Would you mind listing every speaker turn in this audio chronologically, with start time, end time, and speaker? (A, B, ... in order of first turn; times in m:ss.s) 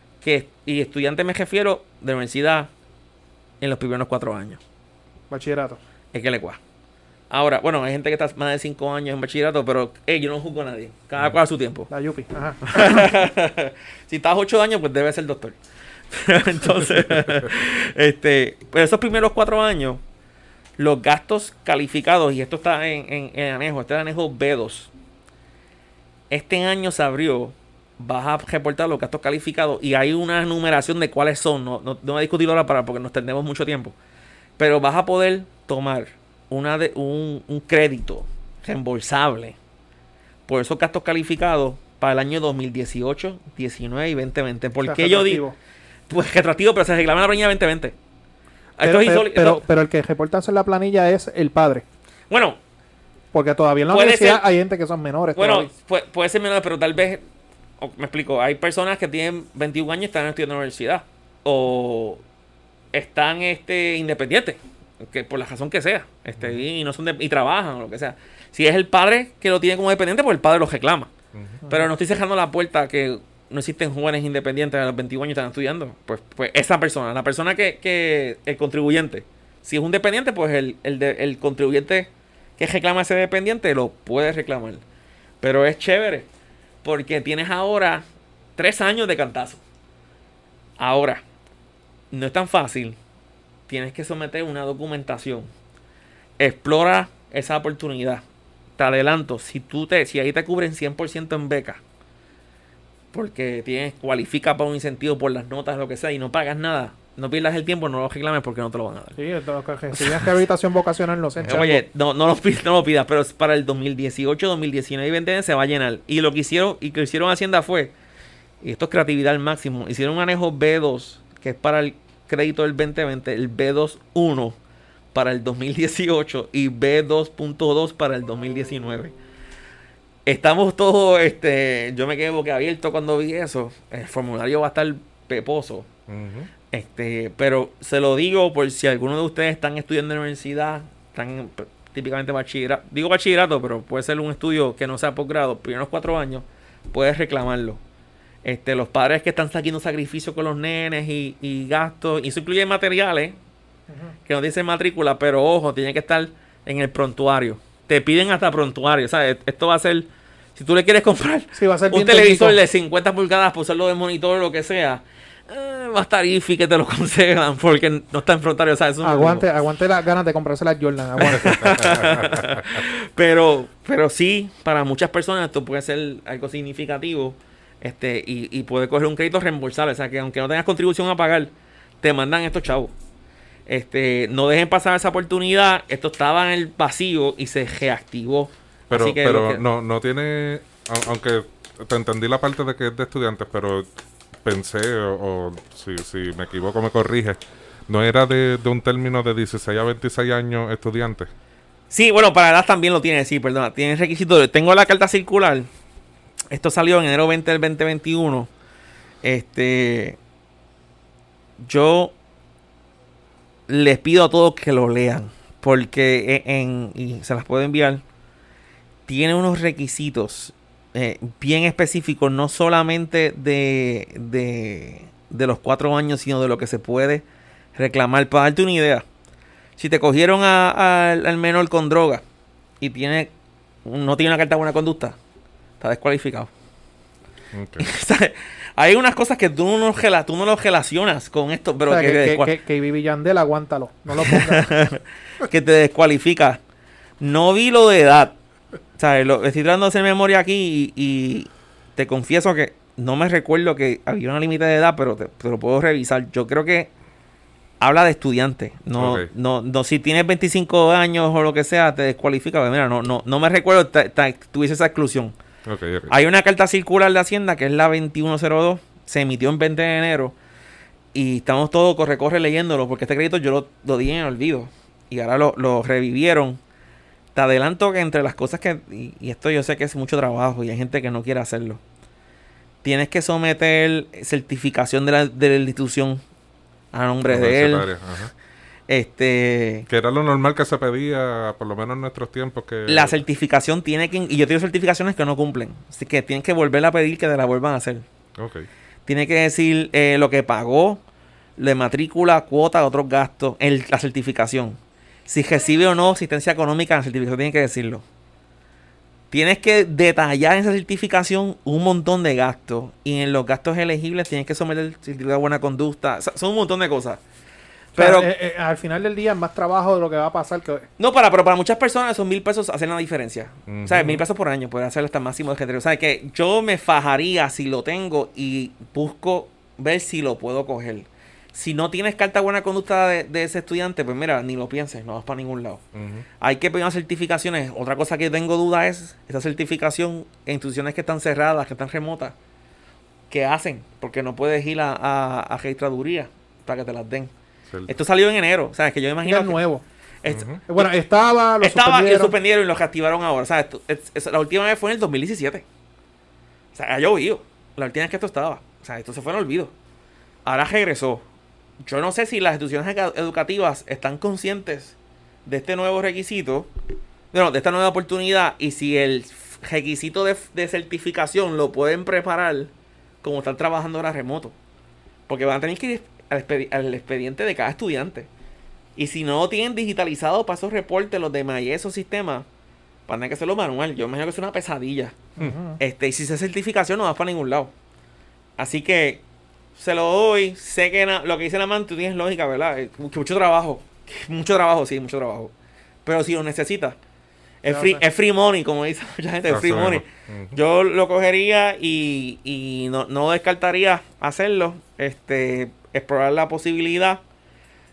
0:00.2-0:02.7 A
0:03.6-0:04.6 A
0:05.3-0:05.8 B
0:06.1-0:06.6 A
0:07.3-0:11.9 A
0:11.9-0:13.0 B
0:12.6-0:15.6 A
0:16.1-0:20.0 A
0:20.8-0:24.9 A
0:26.3-0:34.0 A
0:34.6-0:39.6 A
0:40.5-0:45.4 A
0:44.9-0:45.6 B
0:46.1-0:48.0 A
0:48.8-0:49.6 A
0:48.8-0:51.8 B
0:52.3-0:52.6 A
0:53.3-0:55.7 B
0:53.9-0:54.4 A
0:55.4-0:57.2 A
0:57.8-1:02.2 A
1:02.9-1:11.1 A
1:06.4-1:06.6 C
1:11.3-1:11.6 C
1:11.6-1:11.9 B
1:11.7-1:24.8 A
1:25.4-1:26.3 A
1:26.8-1:28.0 A
1:28.6-1:29.6 A
1:30.8-1:31.2 A
1:32.1-1:33.0 A
1:33.7-1:35.5 A
1:36.4-1:38.2 A
1:38.8-1:41.8 A
1:43.1-1:49.2 A
1:49.2-1:51.8 B
1:50.0-1:50.3 A
1:51.4-1:57.9 A
1:58.6-2:04.6 A
2:05.1-2:09.1 A
2:10.3-2:15.9 A
2:16.1-2:16.5 C
2:16.7-2:27.8 A
2:28.4-2:33.4 A
2:33.9-2:34.2 B
2:34.3-2:49.5 A
2:41.6-2:42.6 B
2:49.0-2:51.9 B
2:51.2-3:02.9 A
3:03.7-3:09.6 A
3:08.9-3:13.9 C
3:14.4-3:21.3 C
3:21.9-3:25.7 A
3:26.5-3:28.5 A
3:29.2-3:30.2 A
3:31.6-3:32.1 A
3:33.7-3:38.0 A
3:39.1-3:47.2 A
3:47.8-3:49.0 A
3:49.8-3:52.2 A
3:52.8-3:53.3 A
3:53.8-3:55.2 A
3:55.8-3:56.5 A
3:57.5-3:57.9 C
3:57.8-4:02.6 A
4:01.9-4:04.7 B
4:04.2-4:06.6 A
4:07.2-4:08.4 A
4:09.0-4:16.9 A
4:17.8-4:25.4 A
4:19.0-4:19.3 C
4:25.7-4:26.1 C
4:26.1-4:30.4 A
4:31.1-4:36.6 A
4:37.4-4:41.8 A
4:42.8-4:46.2 A
4:46.9-4:47.9 A
4:47.3-4:48.3 C
4:48.9-4:49.9 A
4:49.9-4:53.2 C
4:52.9-4:58.1 A
4:58.4-4:58.7 C
4:59.1-5:01.0 A
5:01.6-5:08.0 A
5:09.3-5:17.2 A
5:18.0-5:20.9 B
5:18.0-5:18.3 A
5:21.0-5:35.8 A
5:23.7-5:24.2 C
5:35.9-5:36.2 C
5:36.4-5:42.4 A
5:43.3-5:47.3 A
5:47.9-5:49.6 A
5:49.2-5:49.8 B
5:50.2-5:50.9 A
5:50.3-5:50.6 C
5:50.7-5:52.4 B
5:51.6-5:55.6 A
5:56.8-5:59.7 A
6:00.4-6:01.2 A
6:01.8-6:06.7 A
6:07.3-6:14.6 A
6:15.3-6:18.3 A
6:19.0-6:22.5 A
6:23.1-6:27.7 A
6:25.4-6:25.8 B
6:28.6-6:29.2 A
6:29.8-6:35.5 A
6:36.0-6:37.0 A
6:37.6-6:47.2 A
6:37.7-6:38.0 B
6:39.5-6:40.6 C